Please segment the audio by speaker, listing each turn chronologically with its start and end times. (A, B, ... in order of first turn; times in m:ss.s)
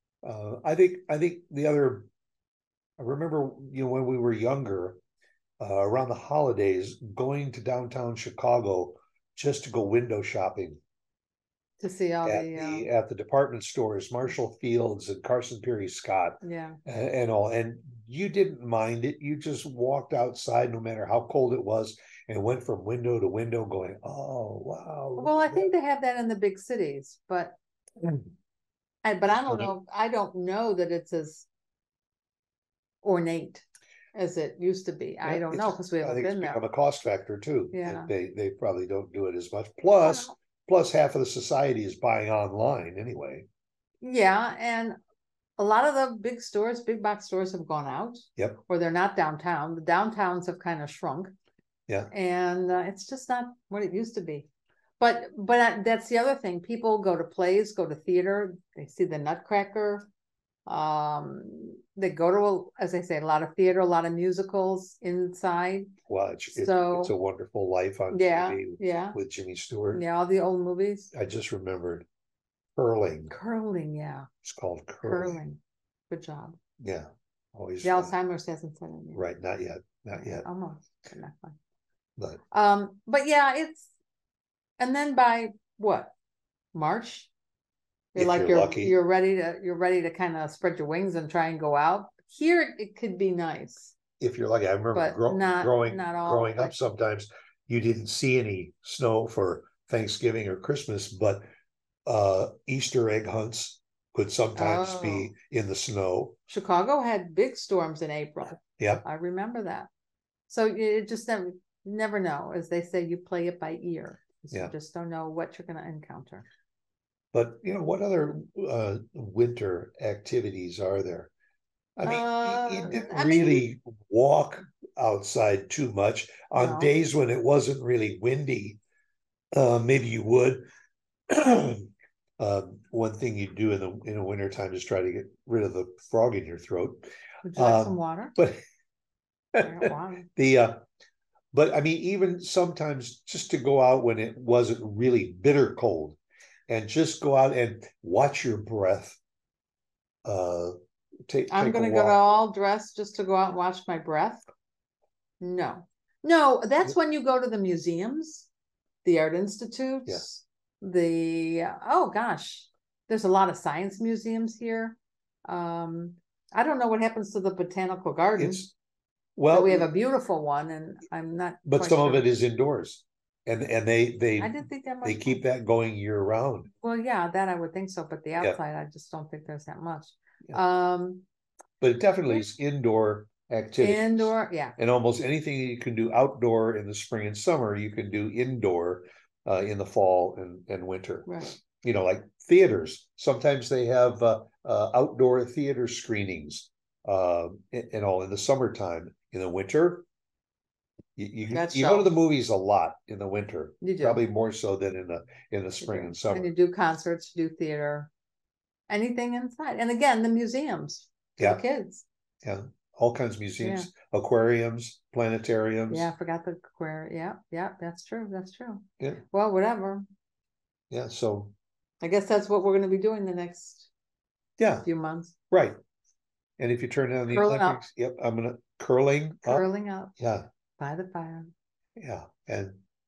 0:00.2-0:02.1 A
0:03.0-0:05.0 A
0:05.6-0:10.8 A
0:11.8-0:12.8 B
0:12.2-0:25.7 A
0:16.4-0:16.8 B
0:25.2-0:27.6 B
0:29.0-0:31.5 B
0:29.4-0:29.7 A
0:33.0-0:36.6 B
0:35.2-0:43.4 A
0:37.7-0:38.1 B
0:40.0-0:40.3 B
0:44.0-0:45.0 B
0:45.6-0:51.3 B
0:52.1-0:54.5 B
0:55.0-1:00.1 B
1:00.7-1:05.9 B
1:06.1-1:10.0 A
1:06.5-1:07.1 B
1:08.1-1:09.2 B
1:09.9-1:11.1 B
1:11.1-1:12.1 A
1:12.8-1:13.3 A
1:13.3-1:14.3 B
1:14.4-1:15.4 A
1:15.0-1:16.6 B
1:16.8-1:18.1 A
1:17.8-1:19.2 B
1:19.1-1:20.4 A
1:20.1-1:21.6 B
1:22.5-1:23.9 B
1:24.8-1:26.1 B
1:26.7-1:27.3 B
1:28.1-1:33.9 B
1:28.2-1:29.0 A
1:34.2-1:41.4 A
1:34.9-1:36.8 B
1:42.0-1:46.4 A
1:44.6-1:45.3 B
1:46.5-1:49.9 B
1:48.8-1:49.0 A
1:50.5-1:56.4 B
1:57.3-2:01.3 A
2:02.0-2:08.8 A
2:02.0-2:03.6 B
2:06.5-2:06.9 B
2:09.5-2:10.6 A
2:11.3-2:17.0 A
2:17.4-2:18.3 B
2:17.5-2:18.6 A
2:19.5-2:20.8 A
2:19.6-2:20.3 B
2:21.5-2:29.2 A
2:30.2-2:30.7 A
2:31.3-2:32.3 A
2:31.5-2:34.4 B
2:35.4-2:38.5 B
2:39.0-2:48.6 B
2:48.4-2:48.7 A
2:49.4-2:49.9 A
2:49.5-2:52.3 B
2:51.6-2:56.7 A
2:54.4-2:55.4 B
2:56.8-3:01.2 B
3:01.8-3:20.0 A
3:03.8-3:04.8 B
3:11.2-3:11.5 B
3:21.2-3:26.5 A
3:21.5-3:22.1 B
3:23.8-3:24.2 B
3:25.8-3:28.1 B
3:28.9-3:32.0 B
3:32.4-3:36.1 A
3:33.6-3:33.9 B
3:35.9-3:40.0 B
3:40.9-3:41.5 A
3:42.0-3:43.9 B
3:44.6-3:44.9 A
3:44.8-3:45.3 B
3:45.5-3:45.8 A
3:46.6-3:49.6 A
3:47.3-3:47.8 B
3:49.4-3:50.1 B
3:50.2-3:50.4 A
3:50.8-3:51.5 B
3:52.0-3:52.8 A